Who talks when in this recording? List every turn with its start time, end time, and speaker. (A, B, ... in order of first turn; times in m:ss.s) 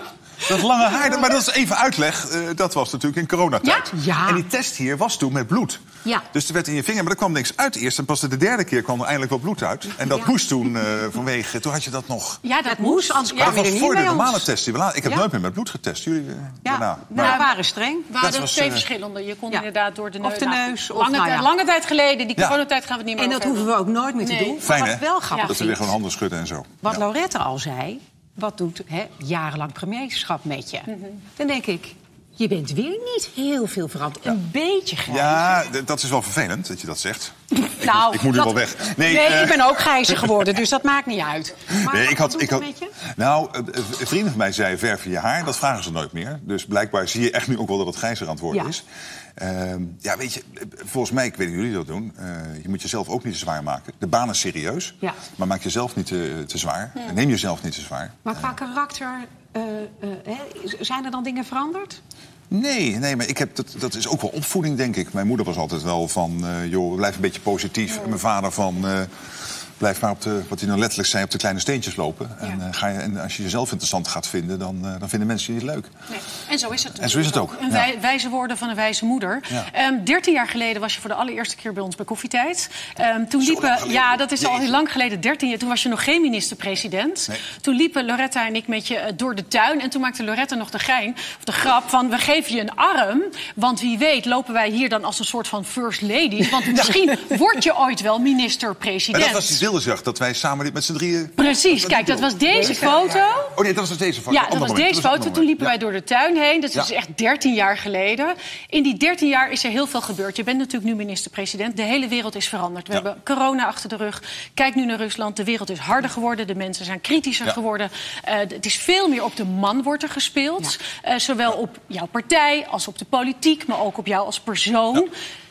0:00.4-0:12.4 A
0:03.9-0:04.4 B
0:10.1-0:10.3 B
0:12.4-0:13.6 C
0:12.6-0:14.5 B
0:13.3-0:17.4 A
0:16.6-0:18.1 B
0:17.2-0:17.5 C
0:18.1-0:24.7 C
0:18.2-0:18.9 A
0:20.2-0:21.5 B
0:23.2-0:25.9 B
0:24.6-0:27.0 A
0:25.3-0:25.6 C
0:26.8-0:35.6 B
0:30.9-0:31.2 C
0:35.1-0:40.5 A
0:37.7-0:42.9 B
0:41.7-0:48.8 A
0:49.4-0:58.5 A
0:58.2-1:02.0 B
1:02.5-1:09.1 A
1:09.8-1:15.9 A
1:16.1-1:39.6 C
1:16.9-1:17.9 A
1:23.4-1:24.8 A
1:39.1-1:45.8 A
1:41.4-1:43.5 C
1:44.3-2:05.1 C